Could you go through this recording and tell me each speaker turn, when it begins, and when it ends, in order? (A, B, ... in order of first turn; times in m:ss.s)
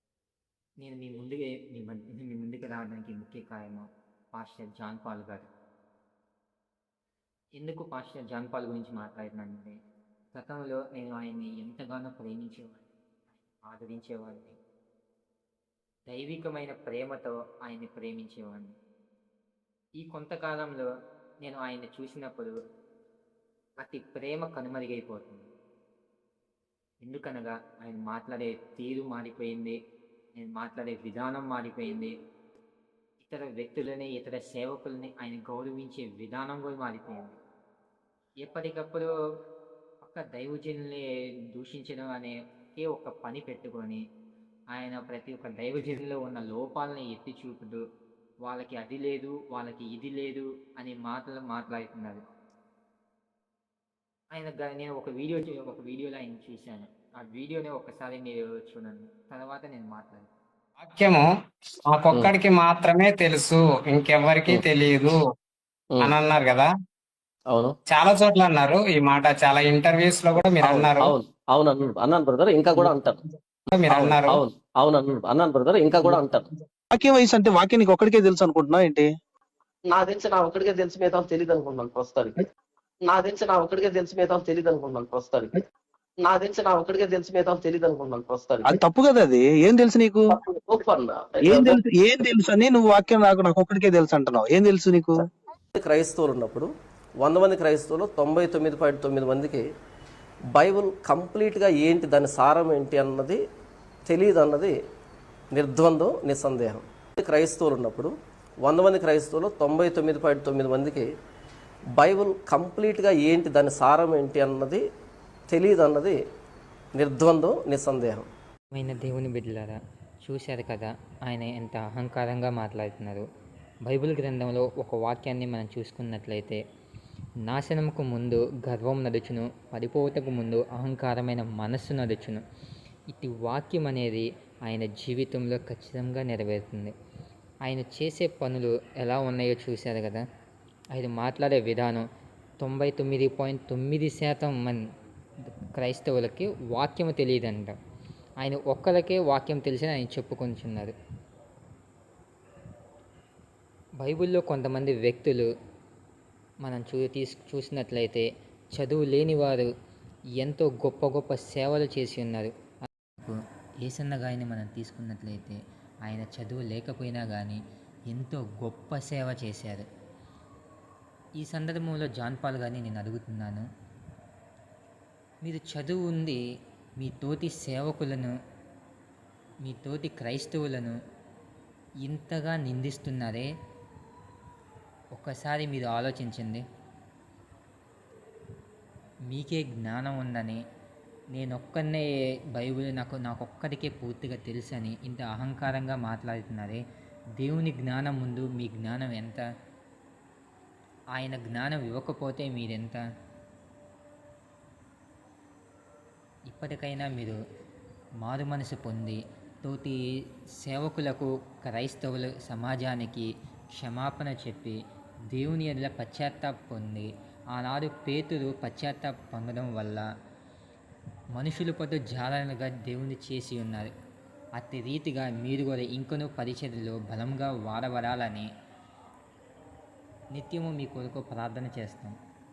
0:00.8-0:05.5 A
0:07.6-0:09.8 A
0:10.3-0:14.6 A
0:16.1-0:18.8 A
0:20.0-0:20.9 A
0:21.4-0:22.6 A
0:23.8-0:25.5 A
0:27.0-0:29.8 A
0:30.4-0:32.1 A
0:33.2-0:37.4 A
0:38.4-0:39.1 A
0:40.0-0:44.0 A
0:44.7-0:47.8 A
0:48.4-0:52.2 A
0:54.3-1:00.3 A
1:00.8-1:01.3 B
1:01.9-1:05.2 B
1:06.0-1:06.7 B
1:07.5-1:07.8 C
1:07.9-1:11.2 B
1:10.6-1:13.2 C
1:13.7-1:14.4 B
1:13.9-1:16.5 C
1:16.9-1:19.1 D
1:19.9-1:22.4 C
1:23.0-1:25.6 C
1:26.2-1:28.7 C
1:28.7-1:30.4 D
1:30.4-1:31.8 C
1:31.4-1:35.2 D
1:35.8-1:36.7 C
1:37.2-1:39.6 C
1:40.6-1:43.4 C
1:44.1-1:44.7 C
1:45.5-1:48.1 C
1:48.6-1:51.1 C
1:52.0-1:54.8 C
1:55.5-1:56.2 C
1:57.0-1:58.2 C
1:58.7-2:03.3 A
2:03.8-2:06.6 A
2:07.5-2:12.4 A
2:13.1-2:16.9 A
2:17.6-2:20.2 A
2:20.9-2:22.1 A
2:22.6-2:24.8 A
2:25.8-2:27.8 A
2:28.4-2:30.9 A
2:34.0-2:35.5 A
2:36.6-2:39.7 A
2:40.4-2:42.5 A
2:43.2-2:49.9 A
2:51.4-2:53.7 A
2:55.4-2:56.4 A
2:57.0-2:58.4 A
2:59.6-3:01.0 A
3:02.0-3:03.5 A
3:05.1-3:06.6 A
3:09.3-3:10.6 A
3:11.3-3:16.8 A
3:17.4-3:19.4 A
3:21.1-3:23.0 A
3:26.5-3:27.4 A
3:28.2-3:34.8 A
3:35.3-3:40.1 A
3:41.3-3:43.9 A
3:44.6-3:48.5 A
3:50.3-3:52.2 A